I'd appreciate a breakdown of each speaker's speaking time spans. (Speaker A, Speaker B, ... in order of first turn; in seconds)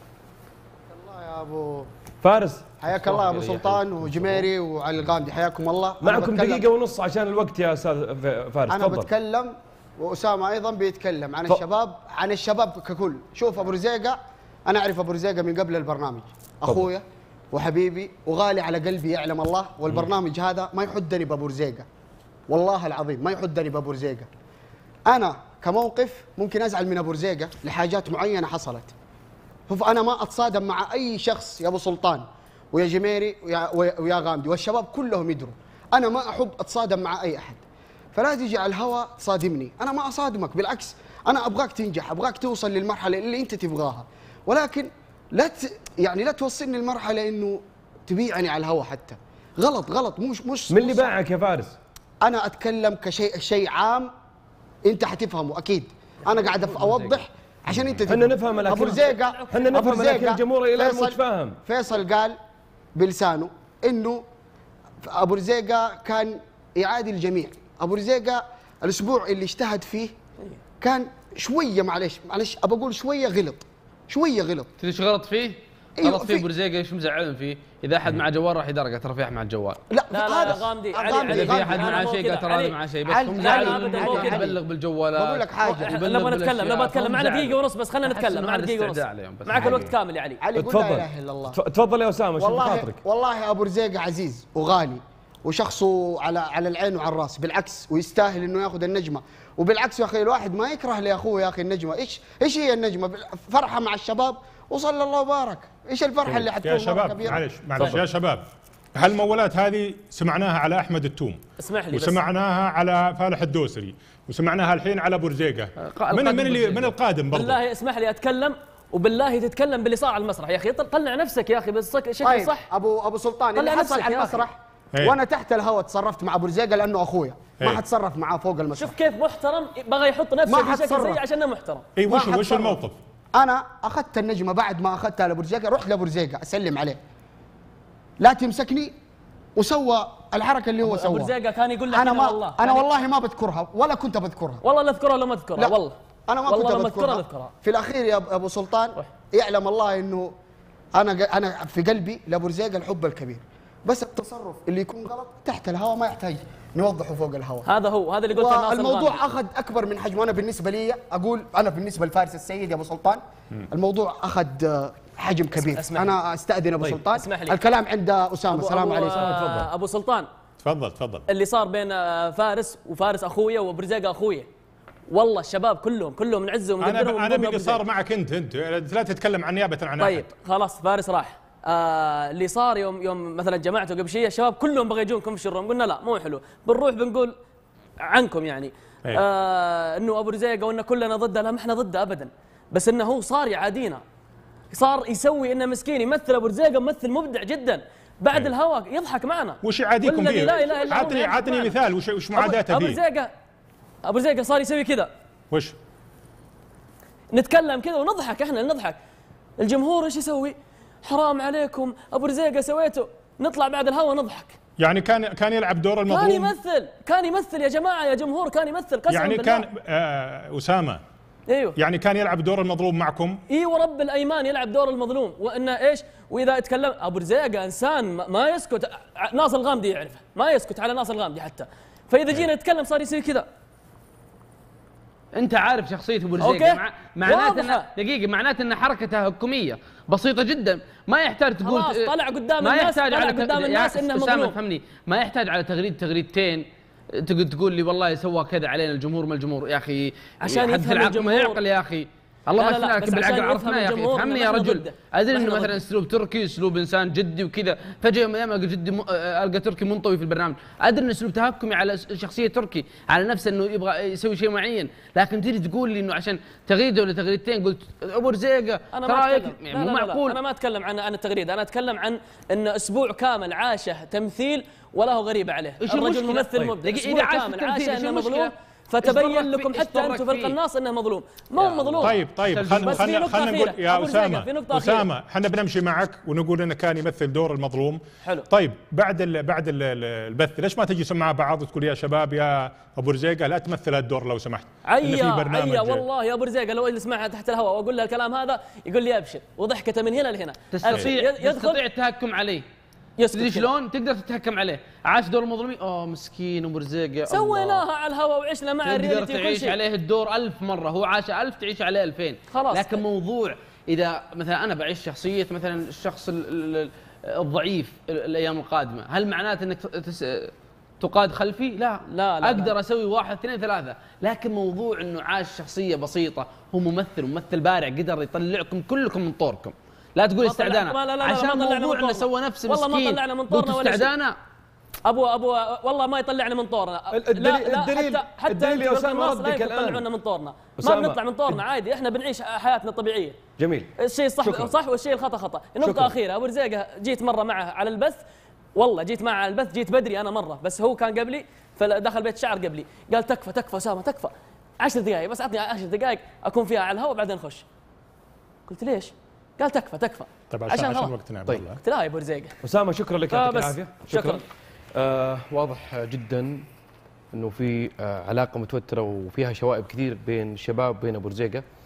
Speaker A: 0.9-1.9, 2.8-6.7, 8.7-21.9, 22.5-24.3, 25.1-28.9, 29.7-37.6, 38.1-51.1, 52.2-54.1, 54.8-62.4, 62.9-64.2, 65.0-70.1, 70.8-74.7, 76.0-76.5, 79.9-82.0, 83.0-84.6, 85.1-86.0, 89.5-91.6, 92.4-107.4, 122.2-128.9, 130.5-131.2, 132.1-132.8, 133.3-137.0, 138.2-138.9, 139.6-141.3, 141.9-144.6, 146.3-150.3, 150.9-157.7, 158.3-169.3
Speaker B: 2.2-4.5, 6.0-9.1, 50.7-51.7, 56.7-57.1, 58.0-61.6, 90.5-93.0, 169.2-169.7, 337.1-340.1, 340.8-341.6, 343.6-343.9, 344.4-344.7, 345.8-346.1, 362.6-364.4, 364.9-366.6, 367.3-371.6
Speaker C: 58.5-60.1, 80.1-82.8, 83.4-84.5, 85.6-90.4, 111.6-112.2, 117.3-122.7, 123.5-124.4, 128.8-131.8, 140.8-142.9, 144.6-147.5, 157.6-159.2, 165.6-166.2, 166.9-167.6, 168.5-170.3, 171.3-174.5, 175.1-177.8, 180.0-187.3, 188.0-194.0, 194.7-201.8, 202.3-203.3, 204.0-205.1, 207.3-209.0, 209.6-214.5, 216.1-219.6, 221.5-221.8, 223.5-233.4, 236.4-237.9, 241.6-244.6, 250.4-251.6, 252.6-255.8, 268.9-282.2, 282.7-285.1, 294.8-301.8, 303.2-303.7, 307.3-309.8, 312.5-313.0, 322.1-322.8, 330.4-334.1, 335.1-343.4, 344.0-348.2, 348.7-357.6, 358.7-361.1, 361.8-362.5, 363.3-364.4
Speaker D: 74.8-79.8, 81.3-89.9, 115.8-116.9, 235.3-270.4, 275.8-278.5, 279.0-280.6, 281.6-283.1, 300.7-302.6, 303.3-307.9, 308.8-334.3
Speaker E: 106.3-111.4, 111.9-117.6, 132.0-133.0, 170.6-171.2, 176.8-180.3, 199.6-203.0, 205.5-205.8, 214.8-216.6, 219.1-221.0, 221.8-223.4, 282.0-296.0, 360.5-361.8